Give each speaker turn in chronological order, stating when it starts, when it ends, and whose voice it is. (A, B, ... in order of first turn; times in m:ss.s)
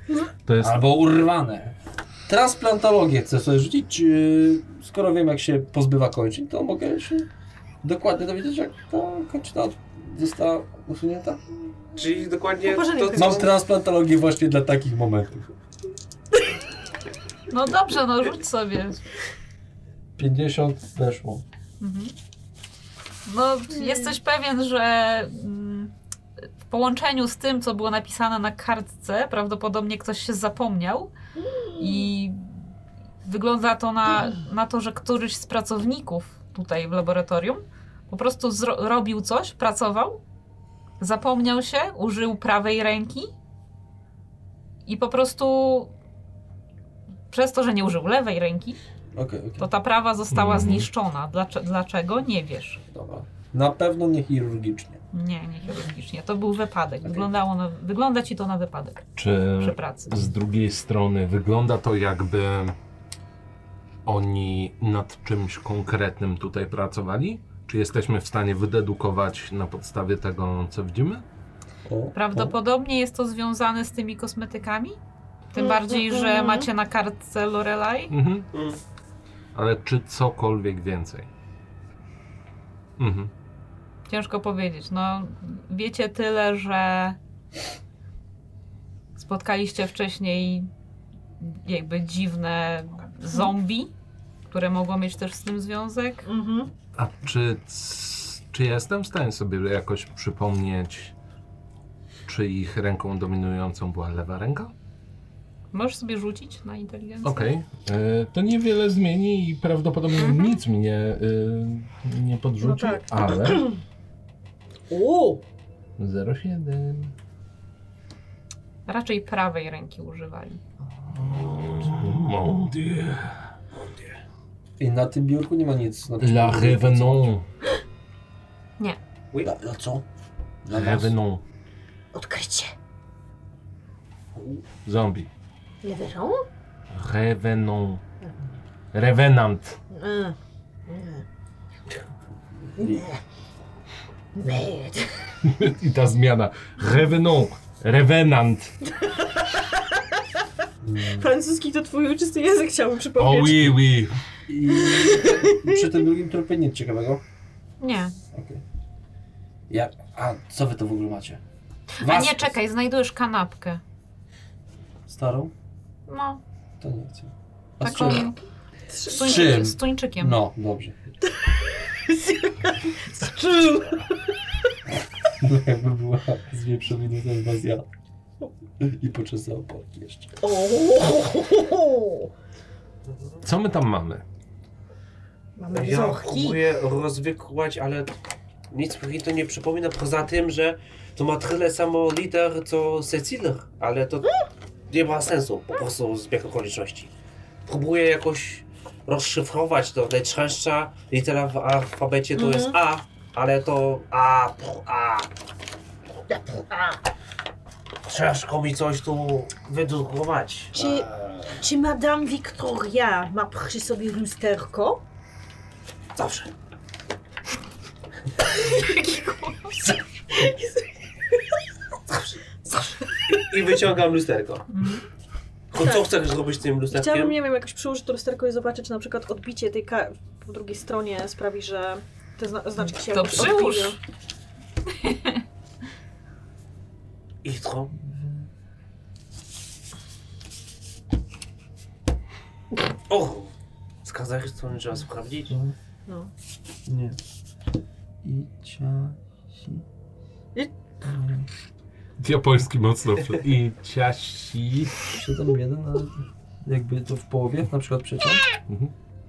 0:00.5-0:00.8 A
0:00.6-0:01.8 B
0:02.3-0:07.3 B
0:07.8-0:11.4 B
0:12.0-0:13.5 C
0:12.6-0:13.5 D
0:13.1-0:15.5 B
0:17.5-0:19.0 E
0:20.2-0:21.4 B
0:21.8-0:22.1 E
0:23.2-0:25.9 E
0:23.8-0:24.1 D
0:26.6-0:31.1 E
0:31.5-0:32.1 D
0:31.8-0:32.6 E
0:33.2-0:40.2 E
0:41.0-0:43.3 E
0:44.8-0:45.9 E
0:47.3-0:48.8 E
0:49.1-0:49.7 B
0:49.6-0:52.8 E
0:50.3-0:50.9 A
0:52.9-0:55.0 B
0:55.1-1:00.3 E
0:59.2-1:02.7 A
1:04.0-1:11.2 A
1:11.8-1:12.5 B
1:12.1-1:15.0 E
1:15.5-1:18.1 E
1:15.6-1:16.7 D
1:18.1-1:18.5 A
1:18.5-1:18.8 C
1:19.5-1:21.3 A
1:23.0-1:23.3 A
1:24.1-1:27.2 E
1:29.2-1:30.7 E
1:31.4-1:33.9 E
1:34.5-1:36.2 E
1:36.2-1:36.7 D
1:37.0-1:41.1 A
1:42.2-1:44.7 A
1:45.7-1:47.5 E
1:47.2-1:53.7 A
1:50.2-1:50.6 E
1:52.6-1:53.8 D
1:54.9-1:55.4 D
1:56.0-1:57.1 A
1:58.9-2:00.6 E
2:01.2-2:03.4 A
2:03.7-2:04.2 C
2:04.8-2:07.3 B
2:06.2-2:07.4 A
2:09.4-2:10.0 B
2:10.6-2:11.1 B
2:10.7-2:11.4 A
2:12.1-2:12.7 D
2:14.8-2:15.3 A
2:15.8-2:16.4 D
2:16.9-2:18.0 A
2:18.9-2:19.8 A
2:19.9-2:20.4 D
2:20.9-2:21.2 D
2:22.8-2:23.2 D
2:24.3-2:25.3 D
2:25.4-2:28.7 A
2:29.0-2:29.6 D
2:30.8-2:31.3 B
2:31.2-2:33.8 D
2:33.2-2:34.1 A
2:34.5-2:37.2 B
2:34.7-2:35.9 D
2:37.8-2:38.1 E
2:38.3-2:38.6 B
2:39.7-2:41.4 B
2:42.0-2:43.8 E
2:42.0-2:42.5 B
2:45.1-2:45.5 B
2:46.1-2:46.4 E
2:46.8-2:48.3 B
2:47.8-2:48.4 E
2:48.9-2:49.5 D
2:49.0-2:50.4 E
2:49.1-2:50.9 B
2:51.4-2:54.2 D
2:55.4-2:57.8 B
2:58.8-3:00.3 B
3:00.4-3:02.3 D
3:03.1-3:03.4 C
3:03.4-3:04.2 A
3:05.6-3:06.6 D
3:05.7-3:08.1 C
3:08.7-3:14.3 C
3:14.9-3:17.1 C
3:17.6-3:25.3 C
3:22.4-3:22.8 D
3:26.3-3:26.9 D
3:28.0-3:31.4 C
3:30.7-3:35.0 D
3:36.2-3:36.5 C
3:38.5-3:41.4 D
3:38.7-3:39.7 E
3:42.1-3:42.4 C
3:42.6-3:43.4 D
3:43.3-3:44.6 C
3:44.7-3:45.0 E
3:45.7-3:47.4 C
3:45.8-3:46.1 D
3:46.9-3:54.0 D
3:52.9-3:54.0 E
3:54.9-3:55.4 E
3:57.4-3:57.9 C
3:58.0-3:58.5 B
4:03.1-4:03.5 C
4:04.0-4:05.5 C
4:06.8-4:07.2 B
4:08.2-4:09.8 B
4:11.0-4:11.5 B
4:12.2-4:15.0 A
4:15.1-4:18.4 B
4:18.7-4:18.9 A